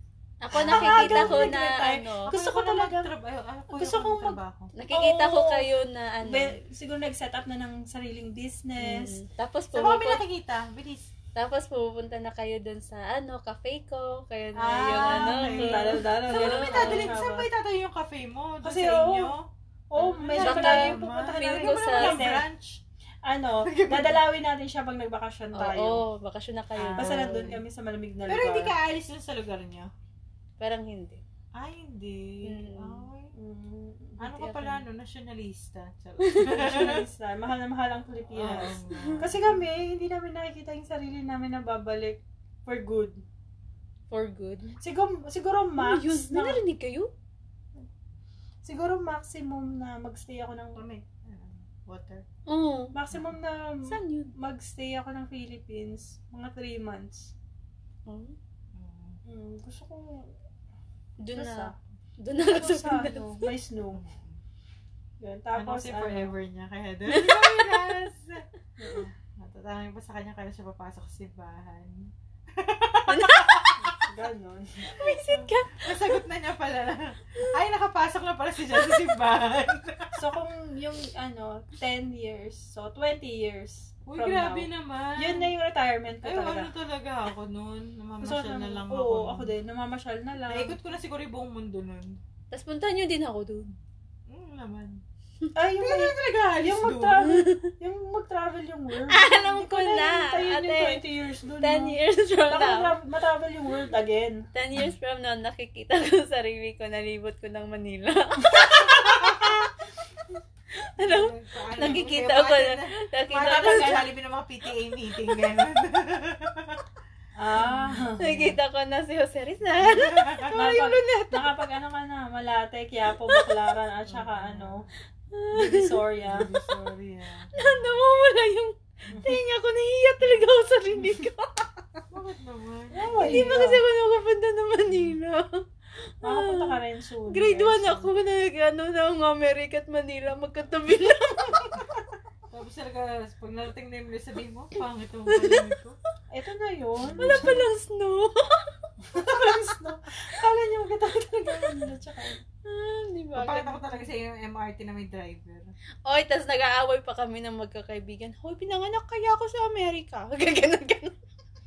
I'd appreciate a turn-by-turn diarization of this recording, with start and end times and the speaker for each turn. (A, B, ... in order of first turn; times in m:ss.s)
0:00.4-0:02.3 A
0:00.5-0:03.1 B
0:00.6-0:01.6 C
0:02.3-0:04.7 C
0:03.7-0:04.4 B
0:04.8-0:06.5 A
0:04.9-0:05.7 B
0:06.2-0:09.2 B
0:08.8-0:10.2 A
0:09.7-0:11.1 C
0:11.4-0:17.2 A
0:14.6-0:19.4 C
0:15.3-0:17.5 B
0:18.6-0:19.3 B
0:19.9-0:22.5 B
0:20.0-0:22.8 C
0:20.4-0:22.3 A
0:23.2-0:26.0 B
0:23.6-0:24.2 C
0:25.6-0:27.5 A
0:26.8-0:27.6 C
0:27.0-0:28.8 B
0:28.3-0:29.9 C
0:30.6-0:31.2 A
0:31.6-0:33.3 C
0:32.4-0:33.0 A
0:33.4-0:34.2 B
0:34.2-0:34.8 A
0:34.2-0:37.0 C
0:36.2-0:36.8 A
0:36.6-0:43.2 B
0:38.3-0:39.4 C
0:38.9-0:39.2 A
0:44.1-0:44.8 A
0:44.8-0:46.6 B
0:45.8-0:47.1 A
0:48.6-0:50.8 B
0:50.8-0:52.2 C
0:52.5-0:53.0 A
0:52.9-0:57.3 B
0:53.8-0:54.3 A
0:58.1-0:58.4 A
0:58.7-0:59.2 C
0:59.2-1:00.3 B
1:01.2-1:03.5 A
1:01.3-1:01.8 B
1:02.5-1:04.0 B
1:03.9-1:04.4 C
1:05.2-1:06.4 B
1:05.5-1:08.5 C
1:07.1-1:08.1 A
1:08.8-1:09.1 B
1:09.4-1:14.1 C
1:13.1-1:13.6 A
1:13.8-1:15.1 B
1:14.9-1:16.2 A
1:15.3-1:20.2 C
1:20.2-1:26.7 B
1:24.1-1:25.5 C
1:26.2-1:29.5 C
1:28.2-1:30.8 B
1:30.5-1:32.2 C
1:32.5-1:33.8 A
1:34.3-1:35.0 C
1:35.6-1:42.0 B
1:35.8-1:37.3 C
1:37.2-1:37.7 A
1:39.0-1:41.0 A
1:41.6-1:43.0 A
1:42.5-1:44.4 B
1:44.5-1:49.6 A
1:48.5-1:49.6 B
1:50.9-1:54.0 A
1:51.0-1:56.8 C
1:53.4-1:54.1 B
1:57.4-1:58.5 B
1:57.6-1:58.1 C
1:58.2-2:01.6 A
1:59.8-2:00.5 C
2:00.5-2:04.9 B
2:03.2-2:03.6 A
2:04.1-2:04.8 C
2:05.3-2:06.0 A
2:05.5-2:06.5 B
2:06.2-2:08.0 C
2:07.5-2:12.0 A
2:12.1-2:13.4 C
2:12.9-2:13.8 B
2:13.2-2:15.6 A
2:16.2-2:16.8 A
2:16.2-2:18.1 B
2:17.3-2:21.8 A
2:22.5-2:26.0 C
2:25.3-2:25.7 A
2:26.3-2:27.7 B
2:27.0-2:27.5 C
2:27.2-2:28.8 A
2:29.1-2:32.4 B
2:32.7-2:33.8 A
2:33.4-2:35.7 C
2:36.1-2:41.2 A